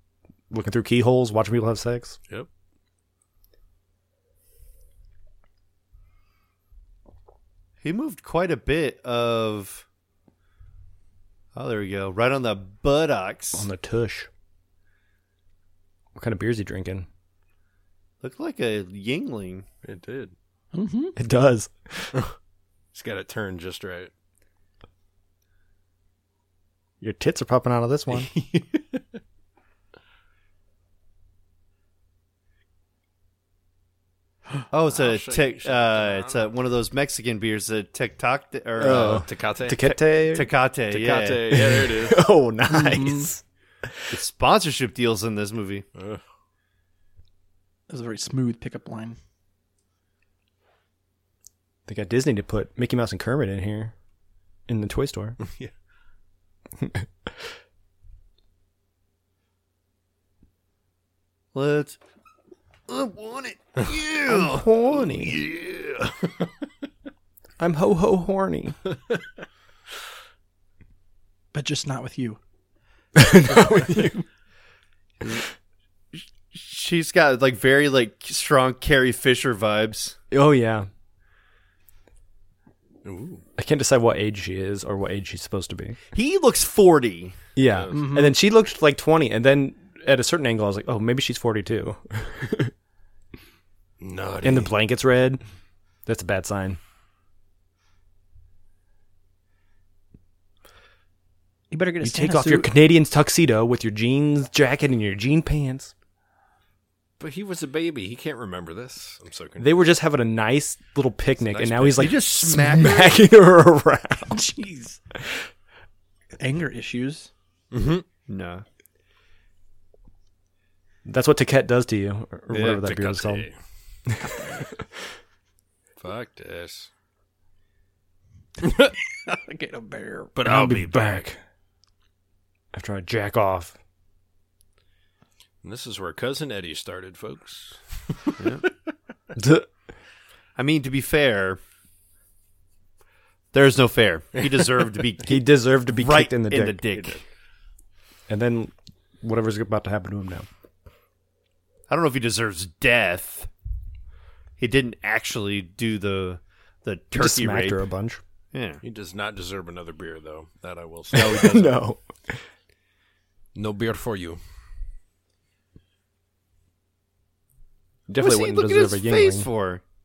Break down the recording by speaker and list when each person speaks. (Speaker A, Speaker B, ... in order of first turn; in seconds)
Speaker A: 0.5-2.2, 13.6-14.3, 16.1-17.1, 21.1-22.2, 27.0-28.3, 38.8-40.5, 41.5-44.1, 51.9-53.9, 54.7-55.4, 56.8-57.1, 64.3-65.4, 67.6-68.8, 73.2-74.2, 80.3-80.9, 83.6-86.0, 87.6-92.7, 94.4-95.4, 96.1-96.8, 102.0-105.9, 109.6-114.5, 115.2-115.5, 121.0-123.5, 130.4-131.4, 132.7-133.8, 139.3-139.7, 145.2-146.8, 148.3-150.5, 157.1-158.2, 161.1-162.4, 168.1-169.5
Speaker B: 7.8-9.8, 11.6-13.7, 18.2-19.7, 34.7-39.3, 39.9-41.7, 44.1-45.9, 61.5-62.0, 62.9-64.7, 76.5-80.2, 86.1-87.4, 111.5-113.2, 118.3-118.6, 140.6-141.6, 143.5-147.2, 151.9-153.5, 154.6-157.8, 158.5-158.8, 168.2-169.8
Speaker C: 19.8-20.3, 22.9-24.1, 28.1-29.0, 34.9-36.5, 38.8-40.0, 40.9-42.2, 46.0-46.2, 55.4-55.7, 65.2-66.3, 83.0-83.4, 87.7-88.0, 94.0-94.7, 107.2-109.9, 117.7-118.0, 122.5-123.6, 126.0-126.9, 128.6-128.9, 130.3-131.3, 135.6-138.4, 158.8-161.8, 163.6-164.4
Speaker D: 20.7-21.2, 42.7-43.3, 47.9-49.2, 71.5-72.4, 73.6-74.1, 87.9-88.4, 101.7-102.7, 114.3-115.0, 116.4-117.3, 124.2-124.7, 129.2-130.3